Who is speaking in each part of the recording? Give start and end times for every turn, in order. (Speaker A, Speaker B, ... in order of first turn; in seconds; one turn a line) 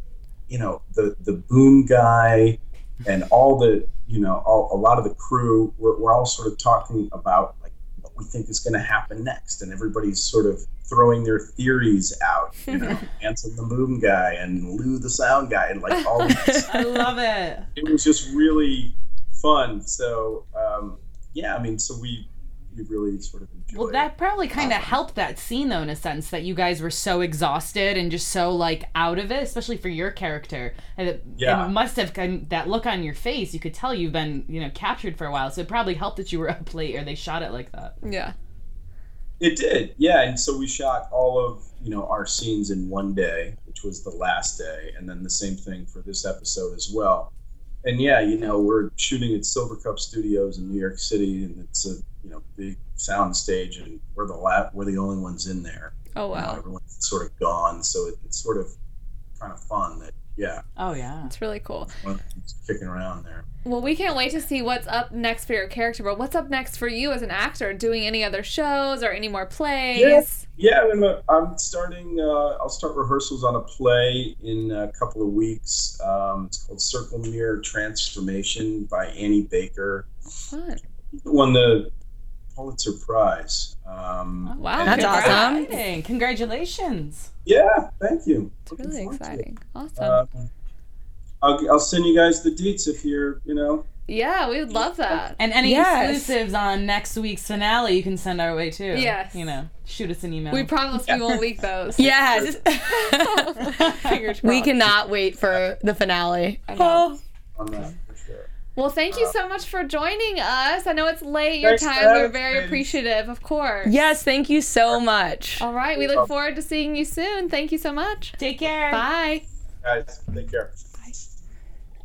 Speaker A: 0.5-17.0
Speaker B: 15.9-16.3
Speaker C: 16.7-17.7
Speaker A: 17.8-25.0
Speaker C: 23.7-37.9
Speaker A: 31.4-31.7
Speaker B: 38.0-38.3
Speaker A: 39.4-47.3
Speaker A: 47.8-58.7
Speaker B: 56.1-56.6
Speaker A: 59.4-60.6
Speaker C: 60.8-61.3
Speaker B: 61.2-61.9
Speaker A: 61.9-63.4
Speaker B: 63.6-70.4
Speaker A: 69.9-80.1
Speaker B: 80.5-80.8
Speaker A: 81.1-81.9
Speaker A: 82.5-85.4
Speaker C: 84.5-87.3
Speaker B: 84.5-85.8
Speaker D: 84.8-85.7
Speaker A: 87.5-89.4
Speaker B: 88.7-90.2
Speaker A: 90.0-90.5
Speaker A: 91.4-93.8
Speaker B: 94.1-95.4
Speaker C: 95.4-101.2
Speaker D: 95.6-96.3
Speaker B: 98.9-99.5
Speaker B: 100.5-102.1
Speaker D: 102.0-103.8
Speaker A: 102.0-102.5
Speaker B: 102.9-104.9
Speaker C: 103.8-104.2
Speaker D: 104.4-107.2
Speaker B: 106.7-107.1
Speaker A: 107.5-108.5
Speaker B: 108.7-113.9
Speaker A: 111.6-112.9
Speaker D: 113.8-115.6
Speaker B: 115.6-118.4
Speaker A: 116.0-116.3
Speaker C: 118.4-119.0
Speaker B: 118.9-119.4
Speaker A: 119.8-120.7